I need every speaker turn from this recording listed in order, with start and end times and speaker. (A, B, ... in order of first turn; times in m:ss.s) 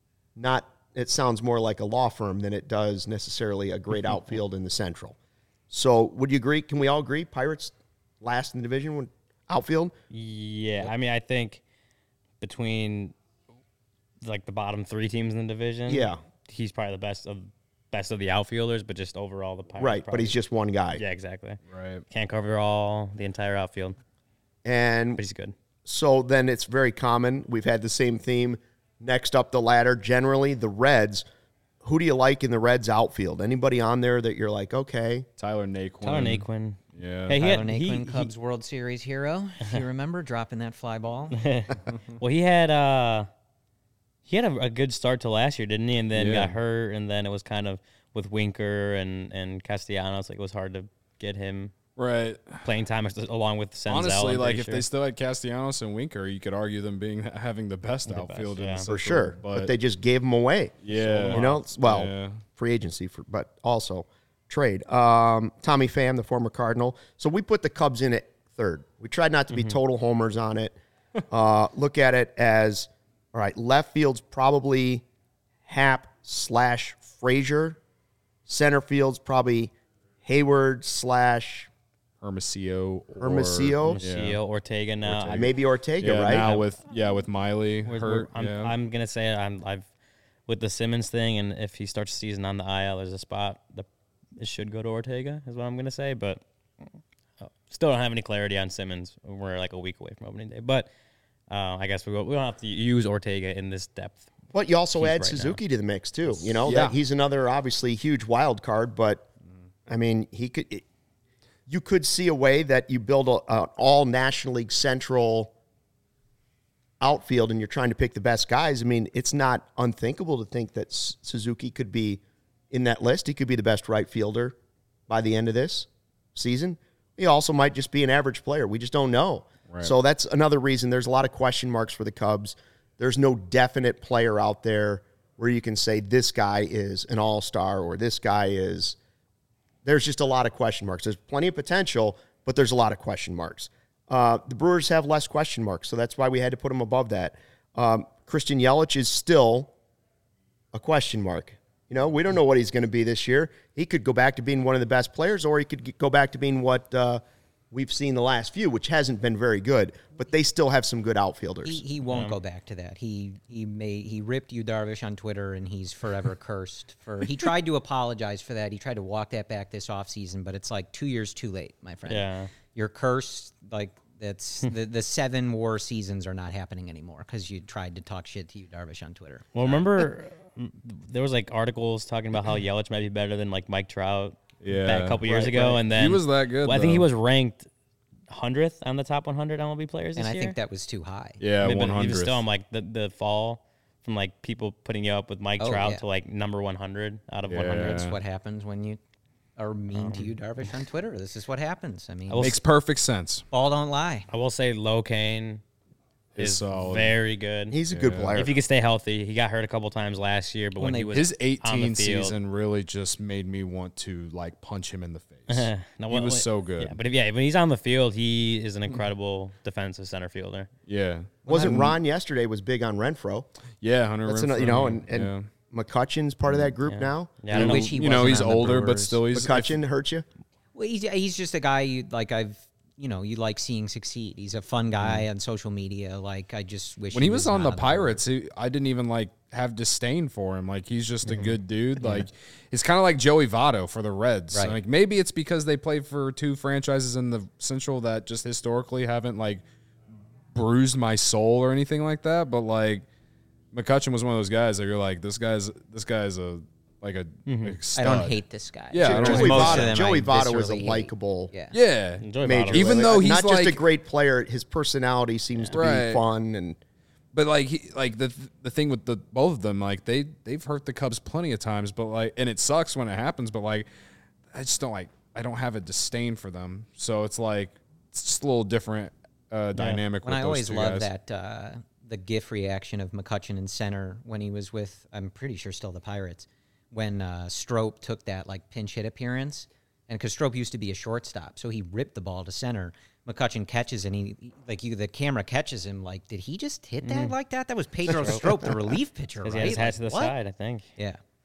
0:00.4-0:05.2 A
0:05.7-0:09.9 A
0:10.1-0:11.6 B
0:12.4-0:13.1 B
0:14.2-0:20.4 B
0:15.9-0:16.2 A
0:19.8-0:21.0 A
0:21.0-0:24.0 B
0:21.7-0:22.0 C
0:24.6-0:25.2 A
0:25.2-0:25.5 B
0:25.8-0:31.2 A
0:31.8-0:35.3 A
0:35.4-0:37.4 C
0:36.0-0:38.3 B
0:37.4-0:41.4 D
0:41.3-0:43.3 B
0:44.3-0:51.7 B
0:46.2-0:46.6 C
0:52.0-0:52.7 C
0:52.6-0:54.8 B
0:53.9-0:59.7 C
0:58.1-0:58.9 B
0:58.9-1:00.8 A
1:00.8-1:02.4 C
1:00.9-1:01.6 B
1:01.3-1:10.8 A
1:09.5-1:09.8 B
1:11.3-1:15.0 A
1:15.7-1:17.8 A
1:18.5-1:19.7 A
1:20.2-1:21.7 A
1:22.2-1:24.4 C
1:23.2-1:24.0 A
1:23.8-1:25.5 B
1:25.1-1:28.7 C
1:25.3-1:26.5 A
1:26.4-1:26.7 B
1:27.9-1:29.9 B
1:30.5-1:36.4 B
1:37.4-1:40.9 B
1:41.5-1:44.3 B
1:44.5-1:49.3 A
1:45.0-1:45.6 B
1:46.6-1:46.9 C
1:49.9-1:50.8 A
1:51.7-1:55.5 A
1:57.0-2:04.6 A
2:05.1-2:19.0 A
2:09.7-2:09.9 C
2:19.8-2:29.7 A
2:30.7-2:41.8 A
2:41.6-2:59.8 D
2:42.1-2:42.4 B
2:52.1-2:52.5 B
2:59.6-3:07.7 B
3:04.6-3:07.1 C
3:08.3-3:10.6 B
3:10.2-3:11.4 D
3:11.4-3:12.4 C
3:11.6-3:18.1 B
3:15.6-3:16.0 D
3:17.5-3:18.2 C
3:17.8-3:19.0 D
3:19.6-3:22.6 D
3:19.9-3:20.4 B
3:22.3-3:22.6 B
3:22.4-3:23.4 C
3:23.5-3:24.3 D
3:24.3-3:25.6 B
3:26.4-3:27.2 C
3:26.4-3:27.8 B
3:27.7-3:28.6 A
3:27.9-3:28.4 C
3:28.4-3:32.4 B
3:30.8-3:31.2 D
3:31.1-3:37.0 C
3:35.5-3:40.7 B
3:40.9-3:41.9 C
3:41.5-3:43.5 A
3:41.5-3:41.8 D
3:43.8-3:45.5 C
3:44.2-3:47.5 A
3:47.4-3:48.4 B
3:47.5-3:49.2 D
3:47.5-3:49.8 C
3:49.3-3:50.3 A
3:50.8-3:58.2 D
3:57.1-4:09.6 C
4:01.3-4:02.2 D
4:04.5-4:04.8 D
4:10.5-4:13.1 C
4:13.7-4:18.4 C
4:17.5-4:17.8 B
4:18.0-4:21.7 D
4:18.9-4:20.0 C
4:19.0-4:21.5 A
4:21.7-4:23.8 C
4:22.2-4:23.2 B
4:22.4-4:26.8 A
4:25.7-4:26.2 C
4:27.3-4:33.9 C
4:34.5-4:41.1 C
4:39.8-4:40.0 B
4:40.2-5:00.4 D
4:57.0-4:57.4 B
4:58.1-4:58.6 B
4:59.4-5:00.9 B